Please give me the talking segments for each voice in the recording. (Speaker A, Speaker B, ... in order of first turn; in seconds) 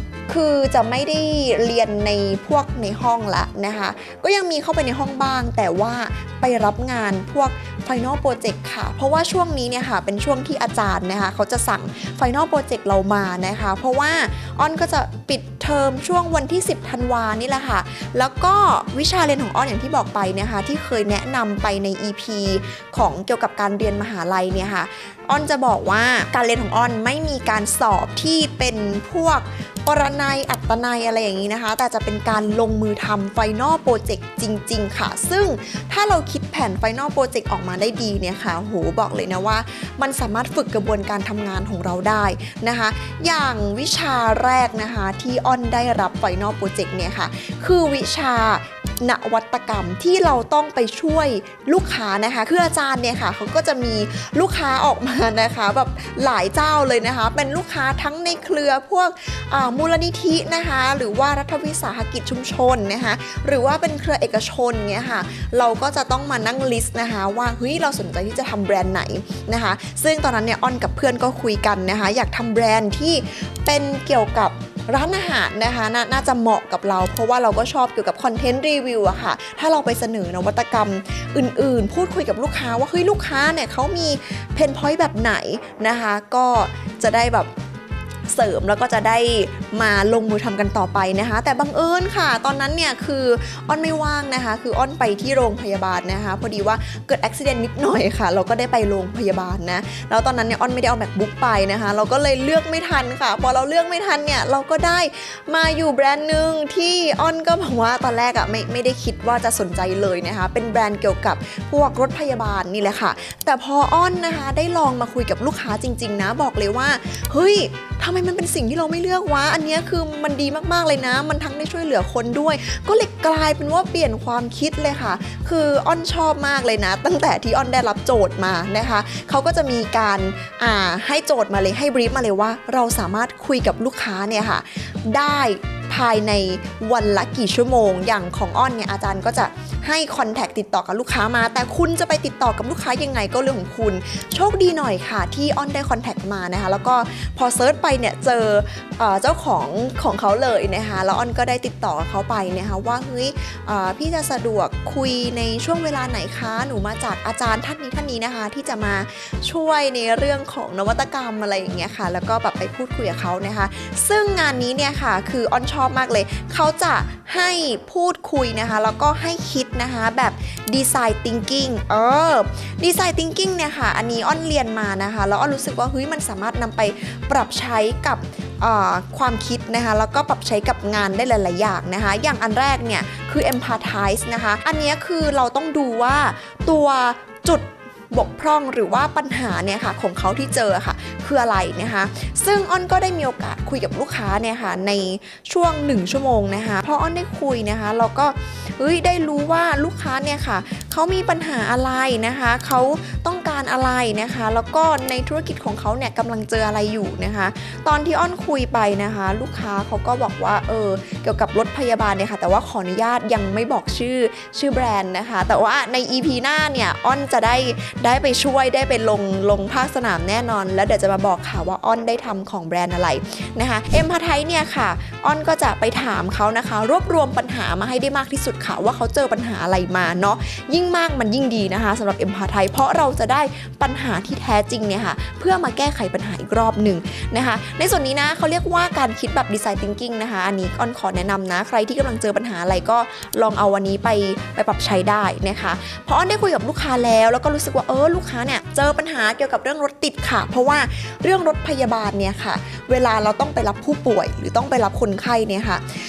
Speaker A: 0.3-87.5, 88.3-255.8